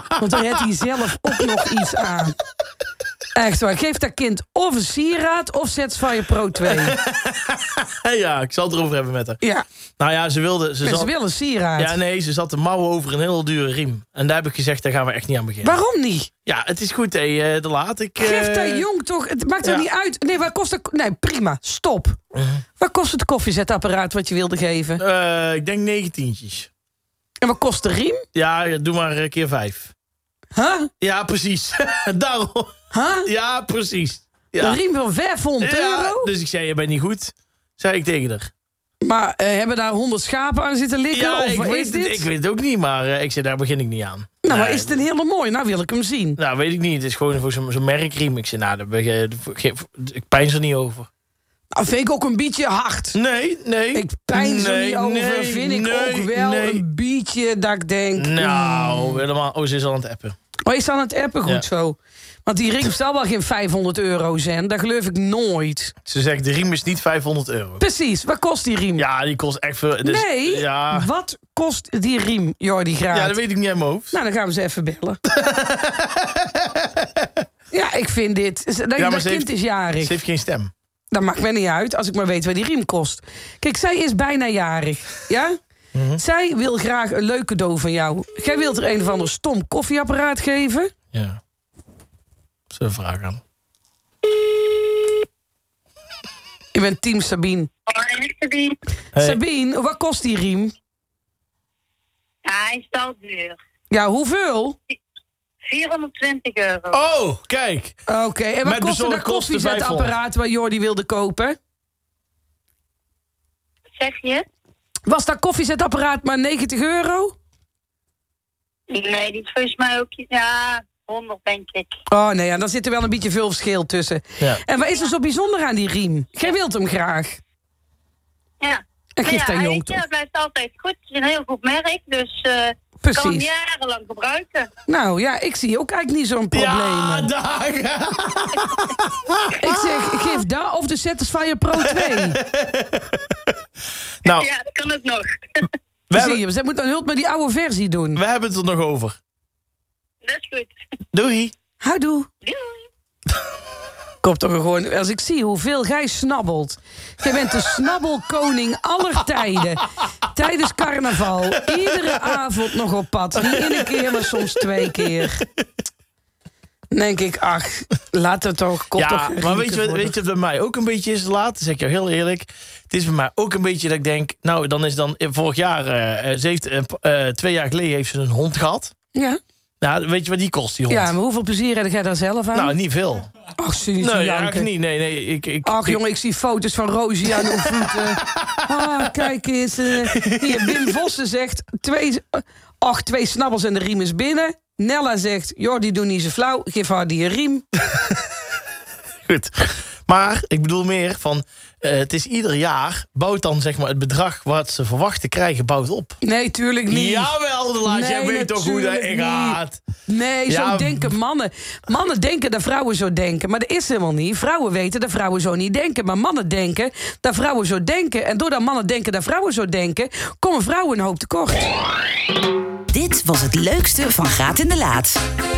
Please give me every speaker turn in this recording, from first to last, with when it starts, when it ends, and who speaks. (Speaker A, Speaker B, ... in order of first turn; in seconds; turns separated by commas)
Speaker A: 0.2-2.4, Speaker A: 3.3-7.0, Speaker B: 6.6-9.4, Speaker B: 10.0-11.1, Speaker A: 10.8-12.0, Speaker B: 11.8-15.8, Speaker A: 15.6-16.3, Speaker B: 16.4-18.9, Speaker A: 18.2-22.2, Speaker B: 22.3-22.6, Speaker A: 22.8-25.0, Speaker B: 25.0-26.7, Speaker A: 27.4-28.2, Speaker B: 28.3-29.9, Speaker A: 30.6-30.9, Speaker B: 31.0-34.8, Speaker A: 32.9-33.3, Speaker A: 34.6-36.3, Speaker B: 35.6-38.5, Speaker A: 39.0-42.3, Speaker B: 41.1-45.0, Speaker A: 44.4-46.4, Speaker B: 46.4-51.1, Speaker A: 51.7-53.2, Speaker B: 53.1-56.8, Speaker A: 53.9-59.2, Speaker B: 58.1-60.3, Speaker A: 60.6-65.9, Speaker B: 66.0-67.8, Speaker A: 67.8-69.0, Speaker B: 69.0-71.1, Speaker A: 70.0-73.4, Speaker B: 73.1-74.1, Speaker A: 74.1-75.2, Speaker B: 75.3-76.4, Speaker A: 77.7-80.2, Speaker B: 79.0-80.7, Speaker A: 81.1-85.5, Speaker B: 85.9-86.2, Speaker A: 86.2-90.9, Speaker B: 91.1-91.4, Speaker B: 92.7-93.4, Speaker A: 96.7-97.7, Speaker C: 97.9-98.8, Speaker B: 99.1-99.4, Speaker A: 99.2-100.7, Speaker C: 102.4-103.6, Speaker A: 103.9-104.8, Speaker C: 105.6-107.1, Speaker B: 106.9-108.0, Speaker A: 108.1-111.6, Speaker B: 108.6-110.2, Speaker C: 114.0-114.5, Speaker A: 115.0-117.3, Speaker C: 118.9-121.9, Speaker A: 122.1-127.4, Speaker C: 128.6-134.7, Speaker A: 129.2-130.0, Speaker A: 133.0-133.5, Speaker A: 134.9-137.3, Speaker B: 136.5-139.7, Speaker A: 139.6-142.4, Speaker B: 141.9-143.2, Speaker C: 144.3-145.7, Speaker B: 146.1-146.4, Speaker A: 146.1-148.2, Speaker B: 148.1-149.2, Speaker C: 150.2-150.7, Speaker B: 151.1-151.5, Speaker A: 151.8-152.3, Speaker C: 152.4-152.8, Speaker A: 154.2-165.4, Speaker B: 163.5-164.2, Speaker A: 166.9-170.1, Speaker B: 169.0-178.9, Speaker A: 179.1-179.4, Speaker B: 179.8-181.1, Speaker A: 180.9-182.7, Speaker B: 182.5-183.3, Speaker A: 183.6-184.7, Speaker B: 184.0-186.0, Speaker A: 185.6-197.6, Speaker B: 187.4-187.9, Speaker B: 190.3-190.9, Speaker B: 199.2-206.2, Speaker A: 206.2-221.7, Speaker B: 206.9-209.8, Speaker B: 210.5-211.2, Speaker D: 222.9-225.2